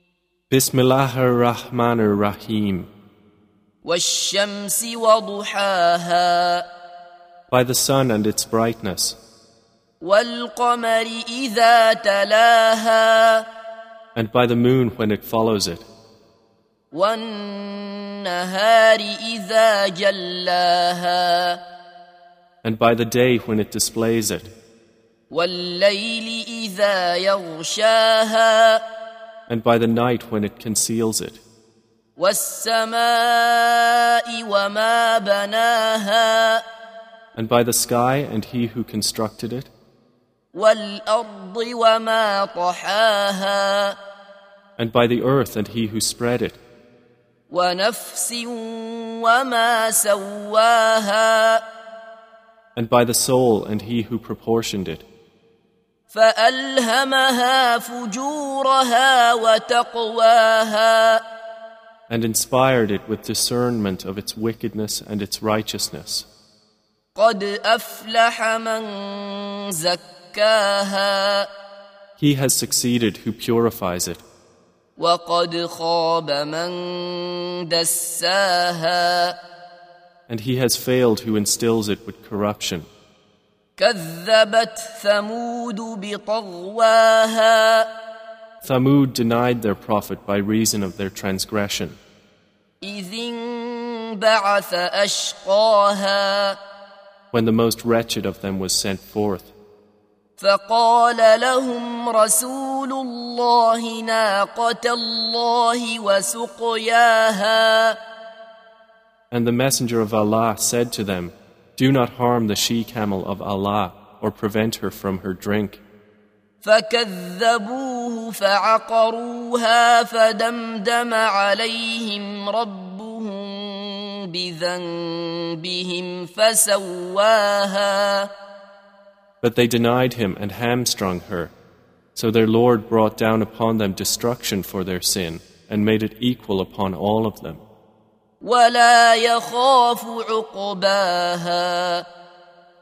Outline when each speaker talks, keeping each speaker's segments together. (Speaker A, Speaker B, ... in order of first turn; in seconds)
Speaker A: 0.5-2.9, 7.5-9.2, 14.2-15.8, 22.6-24.5, 29.5-31.4, 37.4-39.7, 44.8-46.6, 52.8-55.0, 62.1-66.3, 72.2-74.2, 80.3-82.9, 88.6-92.0, 97.3-99.5, 109.3-115.8, 129.4-131.5, 132.2-137.6
Speaker B: 3.8-6.7, 10.0-13.5, 16.9-21.6, 25.3-28.8, 32.2-36.6, 40.5-44.0, 47.5-51.6, 56.1-61.2, 67.2-71.5, 75.0-79.4, 83.8-87.9, 92.8-96.6, 100.4-108.0, 116.6-128.3, 138.4-142.1